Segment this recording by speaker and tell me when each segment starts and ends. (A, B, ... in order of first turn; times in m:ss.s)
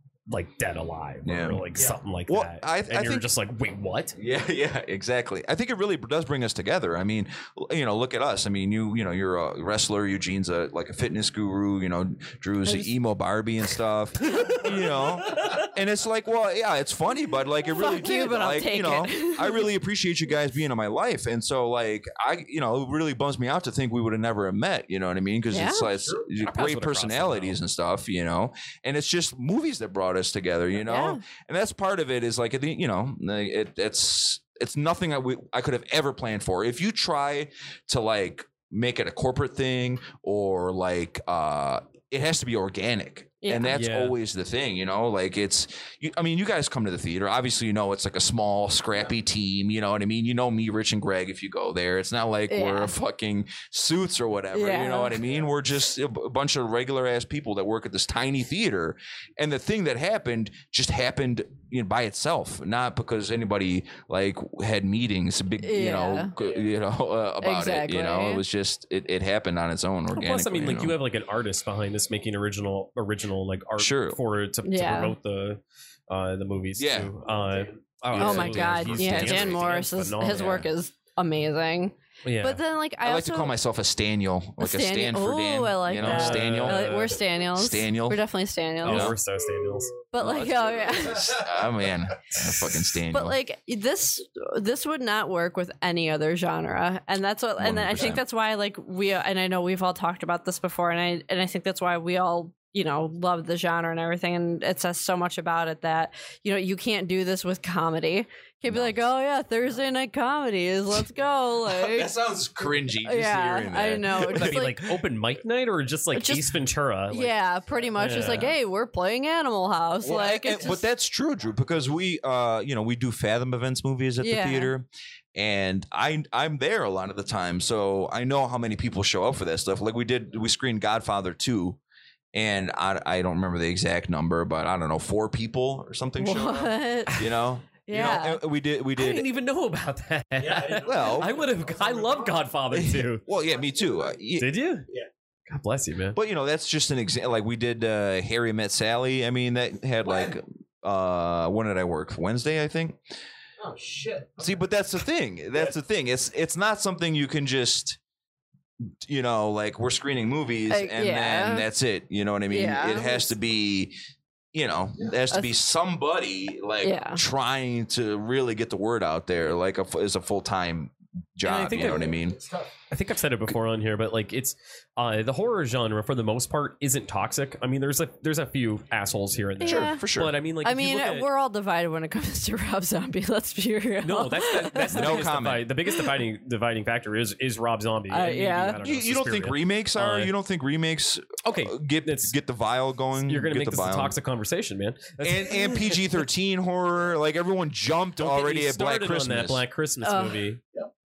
0:00.3-0:04.1 A
0:01.2-0:01.7 B
0:01.7-0:02.0 C
0:02.3-0:03.3 B
0:04.1-1:11.0 B
0:14.3-0:14.6 D
0:17.7-0:19.7 D
0:25.5-0:25.9 D
0:25.9-0:26.3 C
0:26.4-0:27.6 A
0:30.8-0:31.2 D
0:43.4-0:43.8 D
0:43.7-0:44.2 A
0:52.5-0:52.9 D
0:54.5-0:55.2 D
0:55.1-0:55.5 C
1:05.6-1:06.3 D
1:06.4-1:06.7 C
1:07.4-1:08.4 D
1:10.1-1:20.7 A
1:13.8-1:14.2 B
1:14.6-1:15.2 D
1:16.8-1:17.1 B
1:17.2-1:18.0 C
1:18.1-1:19.8 B
1:18.1-1:23.5 D
1:22.2-1:22.6 A
1:23.0-1:28.2 B
1:24.6-1:29.1 D
1:26.0-1:27.2 A
1:28.8-1:30.0 A
1:28.8-1:29.2 B
1:29.5-1:29.8 C
1:30.1-1:31.4 D
1:30.2-1:33.4 B
1:31.1-1:31.7 C
1:32.3-1:32.6 A
1:33.1-1:52.1 D
1:37.6-1:38.2 B
1:48.7-1:49.1 B
1:51.6-1:54.8 B
1:52.9-1:54.8 D
1:54.2-1:57.4 A
1:56.1-1:56.5 D
1:57.1-2:00.8 D
1:57.7-1:58.1 C
1:58.0-1:58.5 A
1:58.2-1:58.5 B
2:00.0-2:11.8 B
2:00.0-2:00.8 C
2:04.2-2:04.7 D
2:12.3-2:19.3 B
2:16.2-2:17.2 D
2:17.8-2:18.4 D
2:19.0-2:23.2 A
2:20.4-2:22.5 C
2:20.8-2:21.3 B
2:22.7-2:24.5 B
2:23.3-2:24.2 C
2:24.4-2:24.9 A
2:25.5-2:26.2 A
2:26.1-2:33.0 B
2:30.0-2:30.4 C
2:33.6-2:34.6 C
2:34.4-2:38.0 B
2:39.0-2:43.9 B
2:40.7-2:41.7 D
2:42.5-2:43.3 D
2:44.5-2:52.4 B
2:46.8-2:47.2 D
2:51.4-2:52.1 A
2:51.7-2:52.7 C
2:52.9-3:01.3 A
2:59.6-3:00.0 D
2:59.6-3:00.4 B
3:00.6-3:05.2 D
3:04.0-3:10.3 A
3:04.9-3:05.6 B
3:08.1-3:08.8 D
3:08.8-3:14.1 B
3:11.4-3:12.3 A
3:13.2-3:16.1 A
3:15.2-3:19.6 B
3:18.2-3:20.6 A
3:20.0-3:20.5 D